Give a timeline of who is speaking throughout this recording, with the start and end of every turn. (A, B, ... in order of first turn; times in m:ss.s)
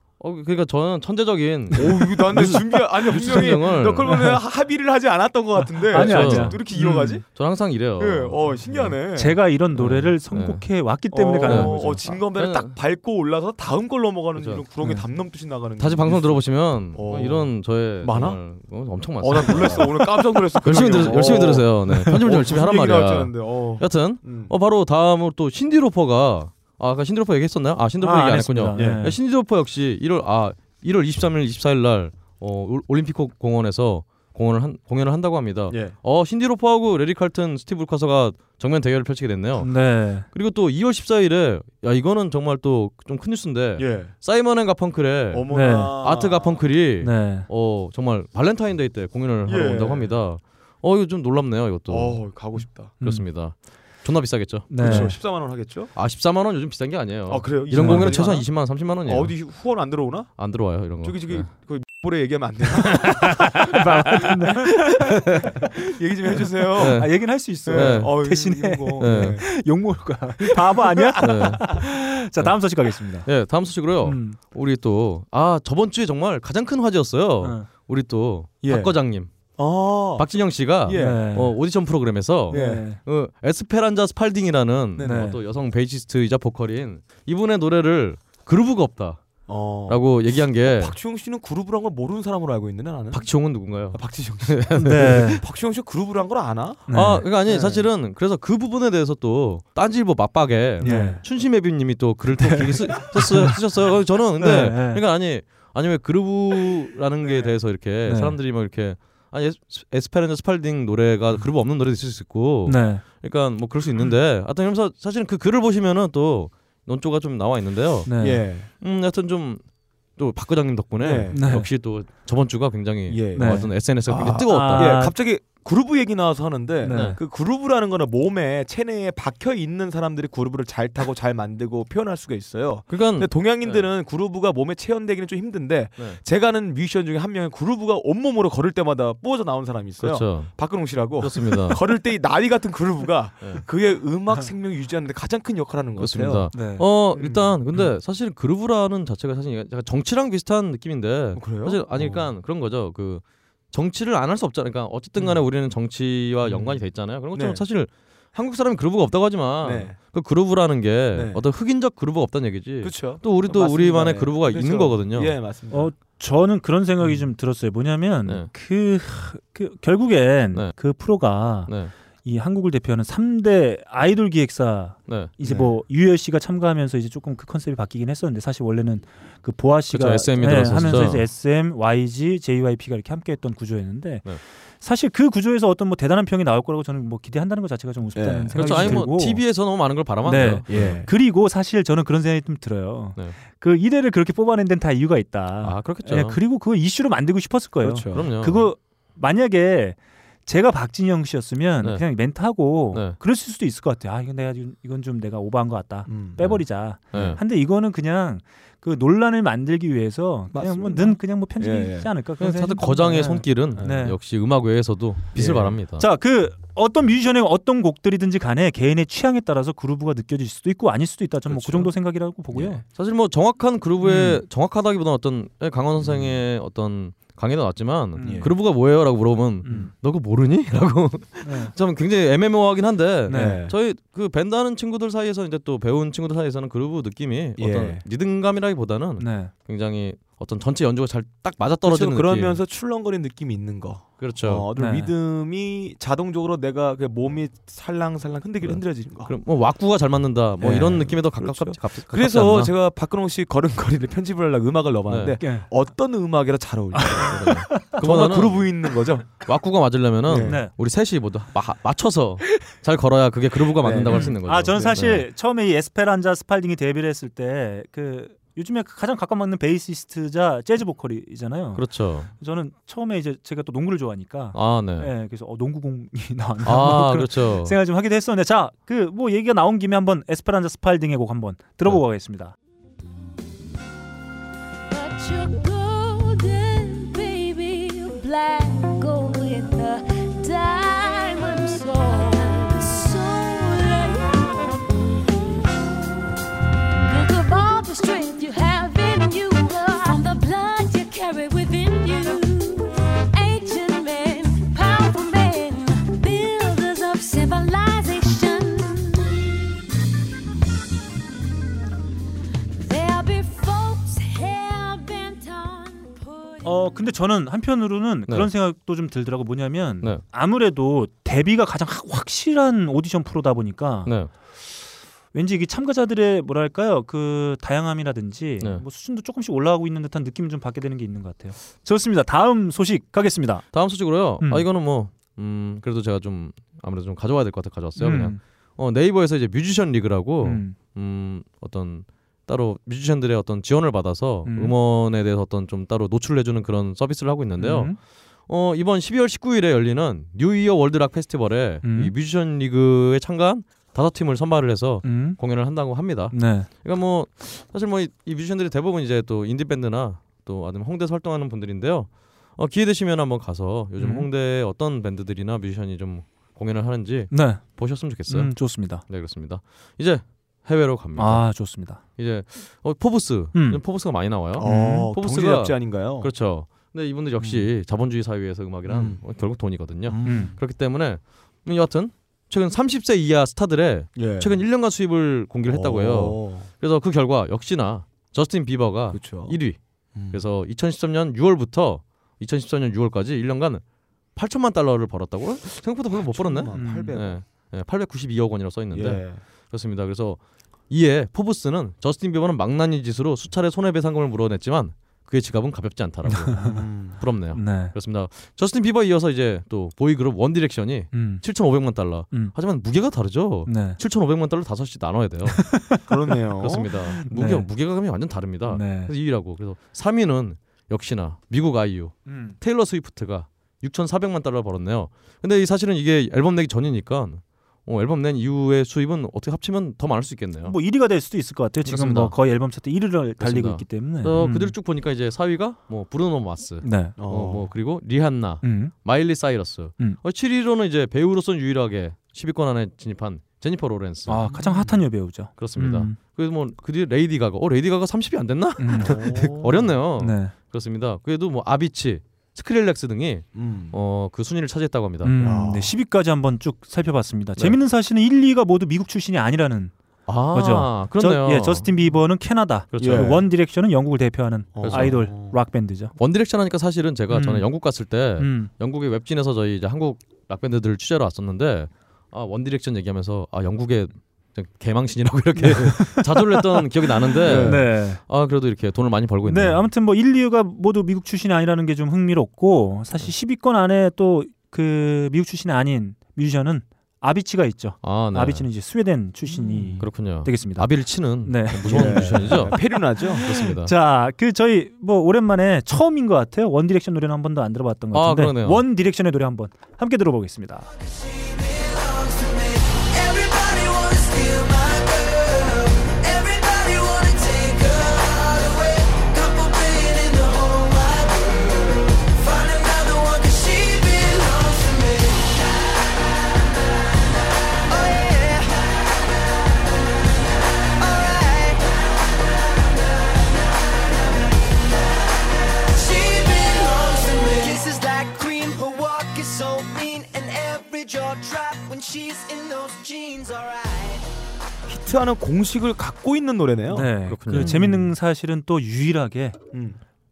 0:00.2-0:04.3 A
0:01.7-0:07.3 B
0:05.9-0:07.2 C
0:05.9-0:08.9 A
0:08.0-0:09.4 B
0:09.2-0:12.2 C
0:09.8-0:10.6 A
0:11.1-0:18.4 B
0:11.4-0:12.8 A
0:14.4-0:14.6 A
0:15.8-0:52.4 A
0:19.2-0:24.5 B
0:28.0-0:29.2 C
0:28.7-0:29.2 B
0:35.7-0:36.0 B
0:39.6-0:40.3 C
0:43.8-0:44.1 B
0:45.3-0:46.6 B
0:45.5-0:46.0 C
0:47.0-0:47.5 C
0:49.4-0:50.2 B
0:51.9-0:53.0 B
0:53.0-0:55.2 A
0:54.7-0:55.2 C
0:54.8-0:55.9 B
0:56.0-0:59.4 A
0:57.3-1:00.4 B
0:57.7-0:58.3 C
1:00.4-1:01.5 A
1:01.0-1:09.5 B
1:03.6-1:05.6 C
1:06.8-1:08.1 A
1:06.8-1:13.3 C
1:09.0-1:09.4 A
1:10.4-1:11.6 B
1:11.2-1:11.7 A
1:13.3-1:19.3 A
1:14.0-1:14.4 C
1:17.4-1:17.7 C
1:18.6-1:19.0 B
1:19.6-1:20.3 B
1:20.2-1:29.2 A
1:20.8-1:21.3 B
1:20.9-1:21.6 C
1:22.5-1:23.0 C
1:22.5-1:22.9 B
1:25.0-1:25.3 B
1:25.0-1:25.4 C
1:29.5-1:33.3 B
1:29.9-1:31.0 A
1:33.1-1:35.4 A
1:33.9-1:37.9 B
1:34.8-1:35.4 C
1:36.9-1:37.2 C
1:36.9-1:58.1 A
1:40.8-1:41.2 B
1:40.8-1:41.2 C
1:42.4-1:43.6 C
1:44.4-1:45.0 C
1:48.0-1:48.4 C
1:52.7-1:53.0 C
1:58.1-1:58.4 C
1:58.2-1:58.7 B
1:58.8-1:59.6 A
2:00.2-2:05.1 A
2:01.0-2:01.6 B
2:01.3-2:01.7 C
2:03.1-2:26.5 B
2:03.4-2:03.7 C
2:04.5-2:05.1 C
2:06.8-2:07.2 C
2:06.9-2:07.2 A
2:12.9-2:13.9 A
2:20.0-2:21.8 A
2:26.0-2:45.4 A
2:26.5-2:26.8 C
2:27.1-2:27.8 B
2:31.4-2:32.3 B
2:35.2-2:35.4 B
2:36.4-2:37.6 B
2:39.6-2:40.0 B
2:41.1-2:41.4 B
2:42.8-2:45.9 B
2:45.7-2:51.7 C
2:51.7-2:51.9 A
2:52.2-3:09.4 C
2:55.4-2:55.7 B
2:59.9-3:01.3 A
3:08.2-3:09.0 B
3:08.6-3:11.0 A
3:10.2-3:34.2 C
3:10.7-3:11.1 B
3:15.6-3:16.4 A
3:17.8-3:18.3 B
3:18.1-3:18.7 A
3:26.1-3:26.6 B
3:27.1-3:27.4 B
3:27.1-3:27.4 A
3:30.5-3:32.1 B
3:32.4-3:36.0 A
3:33.8-3:34.0 B
3:35.4-3:35.8 B
3:36.0-3:42.8 C
3:41.5-3:41.9 A
3:42.5-4:02.6 A
3:44.0-3:44.4 C
3:46.0-3:46.4 B
3:48.2-3:48.5 C
3:48.2-3:48.6 B
3:49.6-3:49.9 C
3:51.4-3:51.7 C
3:53.3-3:53.6 C
3:53.3-3:53.7 B
3:57.6-3:58.0 B
3:59.2-3:59.5 C
4:01.8-4:09.3 B
4:04.2-4:04.7 A
4:04.8-4:05.1 C
4:08.6-4:12.7 A
4:10.6-4:19.4 B
4:15.1-4:15.4 A
4:15.4-4:15.7 C
4:17.0-4:18.0 C
4:17.2-4:18.7 A
4:19.4-4:25.3 A
4:20.3-4:20.6 B
4:20.4-4:20.7 C
4:23.8-4:24.4 B
4:24.1-4:42.6 C
4:31.8-4:32.3 A
4:34.5-4:35.1 A
4:36.6-4:37.8 A
4:44.9-4:54.9 D
4:57.0-5:09.6 D
5:12.8-5:17.1 D
5:16.6-5:24.1 C
5:24.0-5:24.3 A
5:25.3-5:33.6 C
5:33.7-5:48.0 A
5:34.4-5:34.6 C
5:38.0-5:38.4 C
5:40.4-5:40.8 C
5:44.5-5:44.7 C
5:47.6-5:48.0 C
5:48.5-6:11.5 A
5:51.8-5:52.1 C
5:55.0-5:55.4 C
5:56.3-5:56.7 C
6:04.0-6:04.3 C
6:07.3-6:09.0 C
6:11.2-6:12.0 C
6:12.2-6:29.8 A
6:13.5-6:13.8 C
6:14.6-6:16.3 B
6:14.6-6:15.1 C
6:17.4-6:17.7 B
6:18.9-6:19.2 B
6:20.1-6:20.6 B
6:20.2-6:20.5 C
6:24.2-6:24.6 B
6:25.7-6:26.7 B
6:29.1-6:29.6 B
6:30.2-6:30.4 B
6:30.3-6:33.8 A
6:34.4-6:55.8 A
6:36.1-6:37.4 B
6:36.7-6:37.2 C
6:38.9-6:39.4 B
6:46.3-6:46.8 C
6:46.6-6:47.2 B
6:47.5-6:47.9 C
6:51.1-6:51.4 C
6:53.7-6:54.0 C
6:55.6-6:56.1 C
6:56.1-6:56.9 B
6:56.6-7:10.8 A
6:57.2-6:57.7 C
6:58.7-6:59.1 C
7:02.3-7:02.6 C
7:10.6-7:14.7 C
7:11.8-7:12.4 A
7:13.4-7:24.5 A
7:16.8-7:17.2 C
7:17.2-7:17.7 B
7:18.6-7:18.9 C
7:24.3-7:26.2 C
7:24.5-7:25.0 B
7:25.6-7:35.4 A
7:28.8-7:29.2 C
7:29.0-7:30.0 B
7:30.2-7:30.5 C
7:33.6-7:34.0 B
7:35.2-7:39.9 C
7:35.4-7:36.0 B
7:40.3-7:41.9 A
7:40.5-7:46.1 C
7:42.9-7:43.4 A
7:43.0-7:43.4 B
7:44.8-7:45.6 B
7:44.8-7:45.2 A
7:46.2-7:59.9 A
7:47.3-7:47.7 C
7:48.4-7:48.7 C
7:55.6-7:58.2 C
7:57.4-7:57.9 B
7:59.4-8:20.9 C
8:08.0-8:08.7 A
8:09.5-8:10.1 B
8:10.0-8:12.8 A
8:11.9-8:13.4 B
8:13.4-8:13.9 A
8:18.1-8:18.8 A
8:21.0-8:36.7 E
8:37.8-8:39.9 E
8:41.0-8:44.3 E
8:45.8-8:54.2 E
8:54.9-8:58.1 B
8:56.9-8:59.6 C
8:57.3-8:57.8 A
8:59.7-9:00.0 B